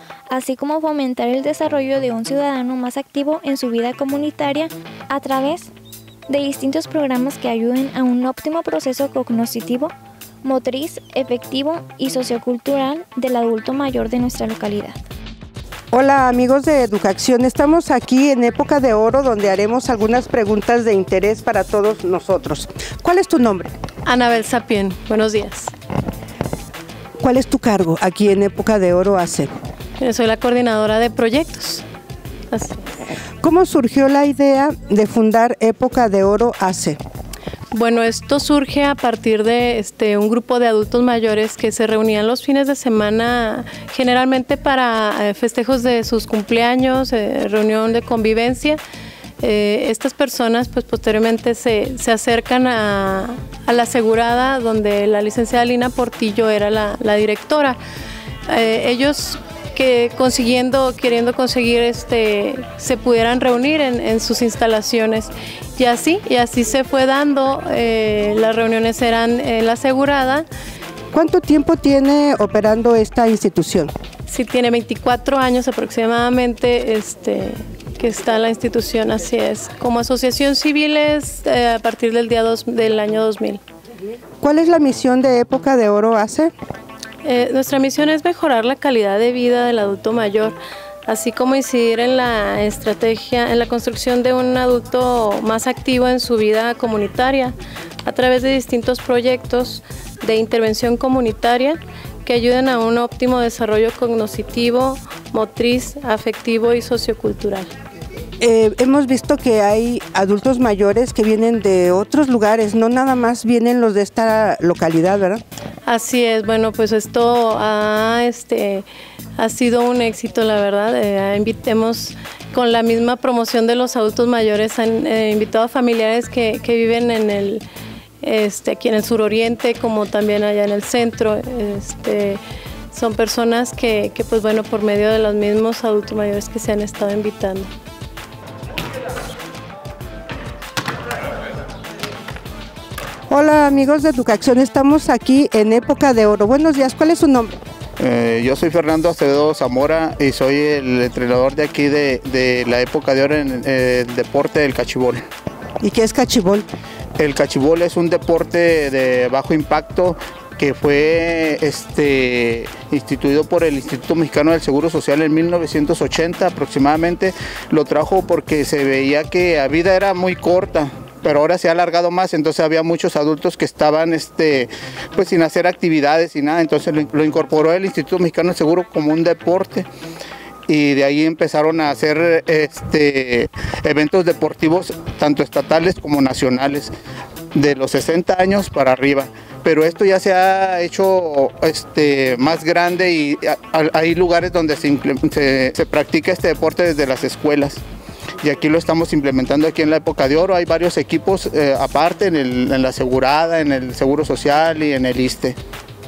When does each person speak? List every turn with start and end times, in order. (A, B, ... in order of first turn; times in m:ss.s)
0:00.3-0:05.7 A
0:06.3-0:09.9 A
0:10.4-0:15.0 A
0:15.9-0:23.7 B
0:24.1-0:25.7 C
0:27.2-0:29.5 B
0:30.0-0:31.8 C
0:32.5-0:32.8 C
0:33.4-0:37.0 B
0:37.7-0:48.8 C
0:49.4-0:57.8 C
0:58.5-1:10.5 C
1:11.1-1:13.9 B
1:14.3-1:23.6 C
1:24.4-1:26.5 B
1:27.2-1:37.5 C
1:38.0-1:47.7 C
1:48.4-1:55.4 B
1:55.9-1:58.9 C
1:59.4-2:07.6 C
2:08.2-2:12.4 C
2:12.9-2:17.7 C
2:23.3-2:27.6 B
2:28.0-2:35.2 D
2:35.8-2:36.7 B
2:37.2-2:59.9 D
3:00.7-3:06.9 D
3:07.5-3:17.8 D
3:18.4-3:25.6 D